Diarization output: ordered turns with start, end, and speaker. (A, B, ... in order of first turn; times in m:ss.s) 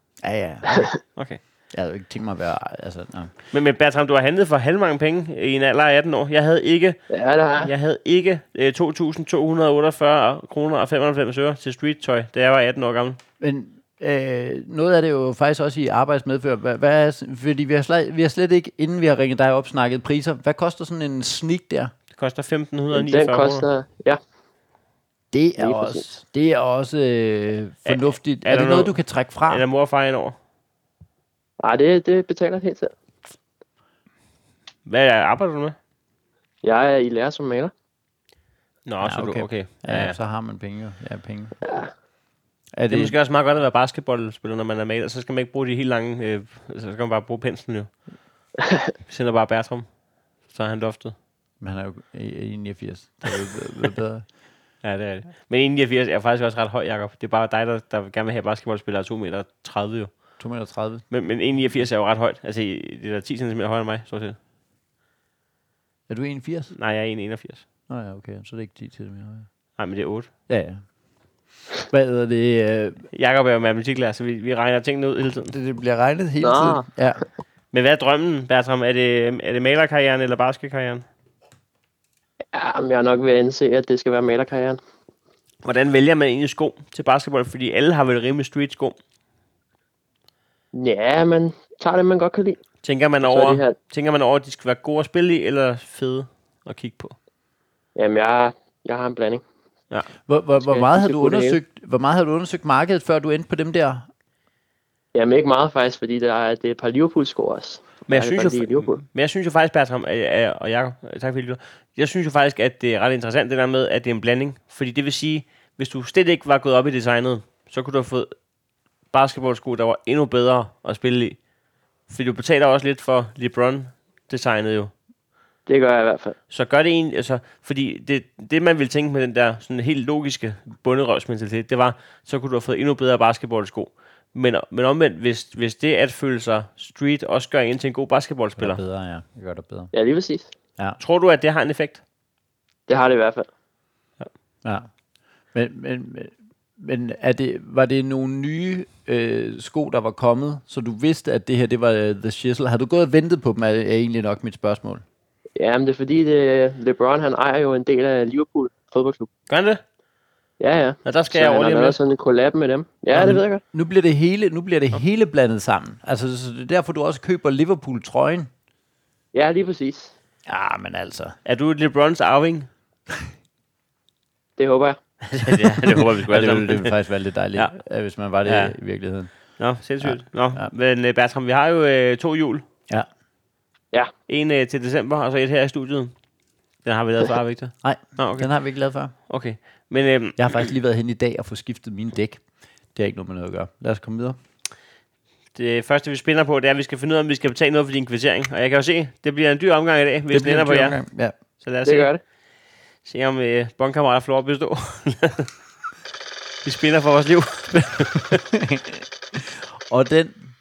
0:00.2-0:00.8 A
0:00.7-0:01.0 B
0:01.7-0:03.3 A
0:03.5-0:07.0 C
0:07.1-0:07.7 B
0:07.6-0:13.2 C
0:13.4-0:21.9 A
0:22.1-0:23.7 C
0:22.9-0:24.2 B
0:25.3-0:29.7 A
0:25.6-0:26.1 B
0:27.9-0:28.9 C
0:29.5-0:30.4 C
0:31.6-0:32.9 B
0:34.9-0:35.8 C
0:36.6-0:37.7 B
0:38.9-0:40.2 C
0:39.0-0:41.6 A
0:41.6-0:41.9 B
0:42.7-0:43.2 A
0:42.9-0:47.9 C
0:49.1-0:49.9 C
0:50.5-0:51.2 C
0:51.6-0:54.3 A
0:54.8-1:00.2 C
1:00.4-1:01.0 A
1:01.1-1:04.4 C
1:06.1-1:06.7 A
1:06.7-1:07.6 C
1:07.9-1:09.5 A
1:09.8-1:10.3 C
1:10.5-1:10.8 A
1:11.9-1:13.0 A
1:13.1-1:15.5 C
1:15.5-1:17.2 A
1:16.4-1:16.9 B
1:17.7-1:21.0 C
1:22.5-1:24.8 B
1:25.6-1:29.0 C
1:30.7-1:32.6 B
1:32.8-1:37.2 C
1:33.2-1:33.8 B
1:38.0-1:39.4 B
1:40.3-1:44.1 A
1:40.6-1:41.6 B
1:45.1-1:49.0 B
1:48.1-1:58.3 C
1:59.1-2:01.4 C
2:02.1-2:04.9 C
2:05.7-2:06.4 B
2:06.5-2:18.8 C
2:18.6-2:19.9 A
2:19.9-2:20.5 B
2:21.0-2:22.0 C
2:22.9-2:23.5 B
2:25.5-2:35.0 A
2:35.6-2:39.3 B
2:39.5-2:39.8 C
2:40.6-2:43.6 B
2:41.0-2:42.0 C
2:43.1-2:48.5 A
2:49.3-2:50.1 B
2:50.5-2:51.4 A
2:51.4-2:52.7 C
2:54.6-2:55.0 B
2:55.3-2:57.0 C
2:55.4-2:59.3 A
2:58.5-2:58.8 C
2:59.6-3:02.6 C
3:00.0-3:00.7 A
3:04.3-3:06.2 C
3:06.8-3:08.5 C
3:07.8-3:09.1 A
3:09.3-3:10.7 C
3:10.4-3:12.4 A
3:12.9-3:14.4 A
3:15.6-3:21.0 C
3:20.3-3:21.4 A
3:21.6-3:22.1 C
3:21.8-3:22.2 B
3:23.0-3:25.5 C
3:26.6-3:28.4 C
3:28.3-3:30.4 A